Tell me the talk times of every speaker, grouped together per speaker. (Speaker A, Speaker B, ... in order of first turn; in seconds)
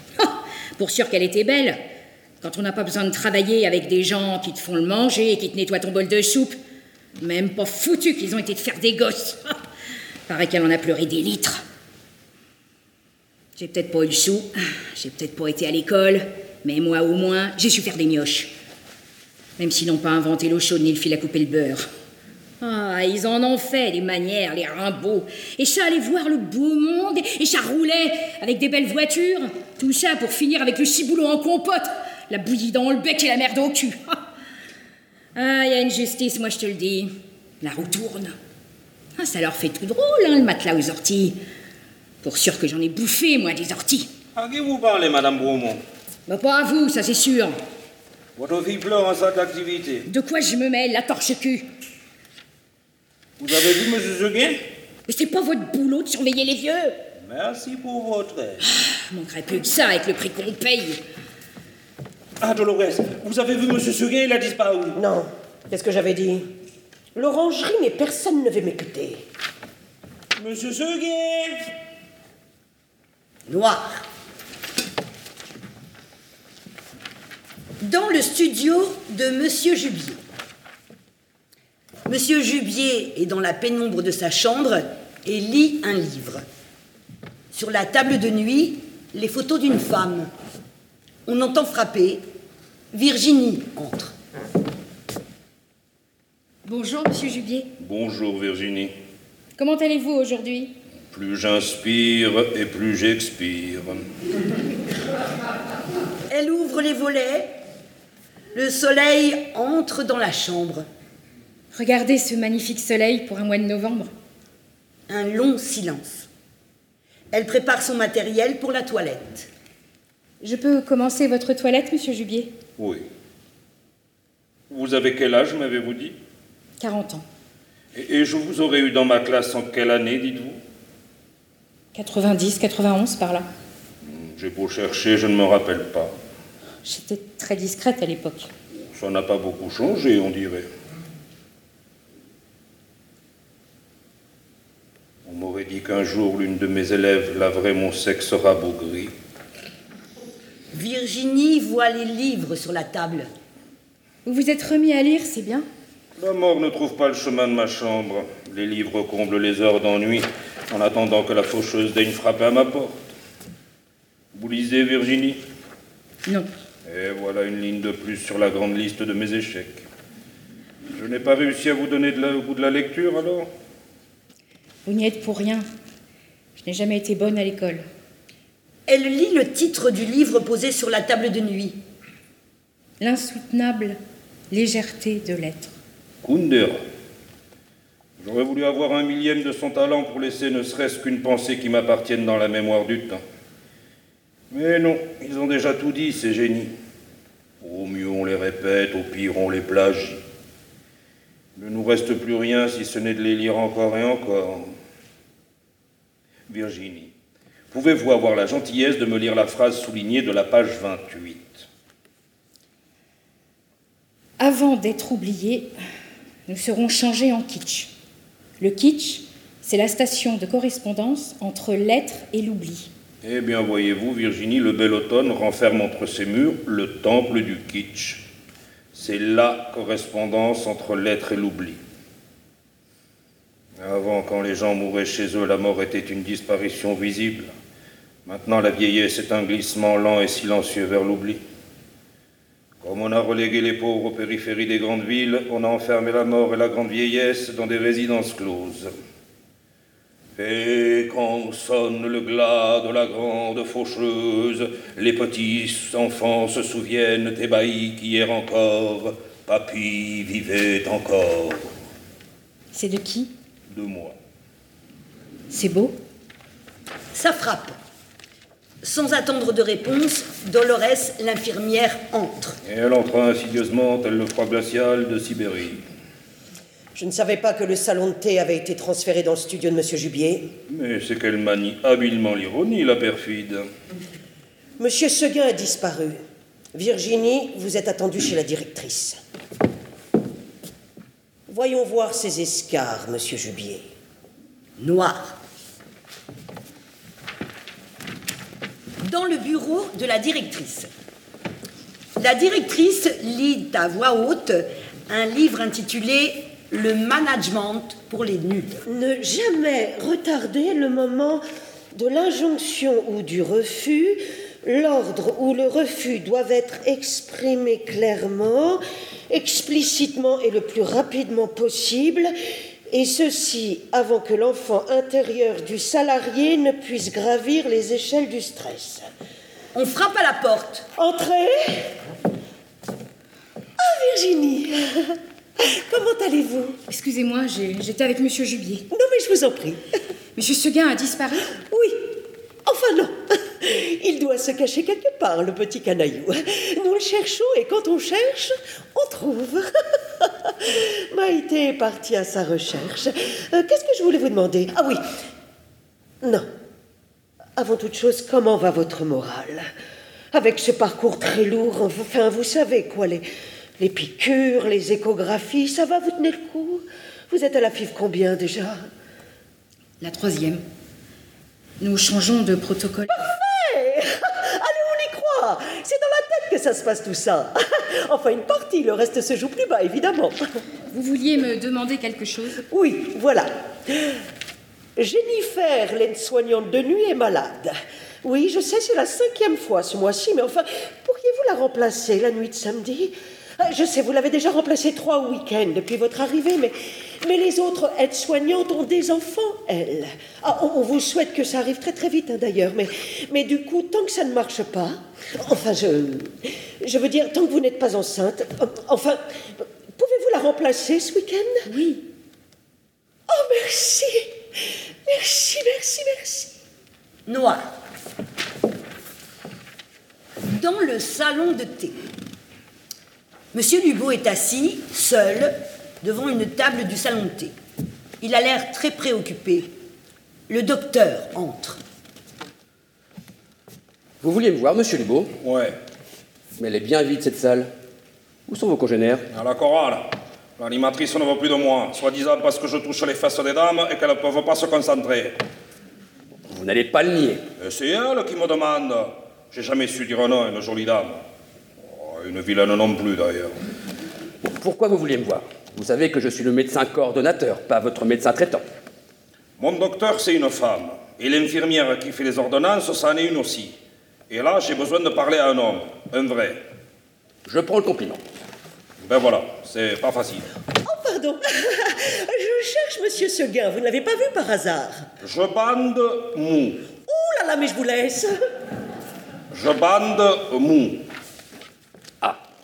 Speaker A: 0.2-1.8, 2.4-6.6, 7.2-9.6, 10.3-11.6, 13.6-18.5, 19.6-21.9, 22.6-34.2, 35.3-38.3, 39.2-41.4, 42.2-44.1, 46.3-47.6, 50.1-51.7, 55.1-57.0, 58.6-61.0, 96.6-97.7, 99.6-100.7, 111.7-114.1, 120.4-122.5, 126.8-127.2, 131.9-133.5, 136.8-138.5, 154.2-155.7, 174.8-175.7, 176.6-177.8, 183.0-184.0, 184.5-185.7, 214.4-215.7, 216.5-217.9, 218.6-222.9, 262.7-263.3, 265.5-265.9, 336.9-338.9, 340.4-341.5, 370.0-370.6, 371.8-373.2, 380.9-382.6, 411.6-412.0
Speaker B: 44.4-45.8, 48.4-50.1, 53.4-54.6, 57.2-58.6, 62.4-65.0, 70.4-71.6, 97.8-98.9, 101.1-104.0, 122.8-123.0, 124.7-126.2, 127.9-130.6, 134.0-136.1, 138.9-140.7, 145.2-149.1, 156.2-163.0, 164.3-165.4, 166.8-169.8, 170.9-173.5, 186.2-186.8, 188.2-193.2, 194.5-196.7, 197.6-200.2, 201.6-204.7, 206.5-207.1, 207.7-211.7, 223.2-228.2, 228.9-231.8, 233.8-237.5, 238.2-241.4, 242.8-248.9, 250.3-261.7, 263.7-264.2, 272.6-275.8, 280.7-283.7, 435.4-435.8, 439.3-445.4, 447.6-451.2, 451.9-453.5, 459.6-463.8, 464.3-466.6, 469.0-470.5, 475.2-476.9, 479.5-481.1
Speaker C: 65.0-66.5, 67.1-69.2, 276.9-280.5, 284.8-286.2, 286.7-289.2, 291.5-293.8, 308.9-322.3, 322.9-329.1, 330.9-331.9, 333.8-336.8, 338.9-339.8, 341.7-342.1, 342.6-355.0, 357.6-359.7, 360.3-363.2, 363.8-368.9, 373.1-380.5, 382.7-384.2, 385.0-411.7, 413.3-416.5, 470.8-475.1, 477.1-478.4
Speaker D: 73.5-74.0, 77.8-80.2, 82.1-86.4, 87.5-90.3, 91.2-92.2, 92.9-94.1, 106.3-107.5, 108.5-110.9, 115.1-116.3, 117.3-119.5, 150.7-153.3, 178.9-181.8, 267.1-267.8, 268.8-272.6, 294.8-295.4, 299.0-300.9, 302.2-308.8, 329.7-330.9, 417.3-417.6, 420.4-421.9, 423.5-427.5, 428.2-429.7, 430.5-431.8
Speaker E: 434.2-435.3, 436.6-437.7, 438.5-439.2, 446.5-447.4, 454.4-458.6, 467.4-468.2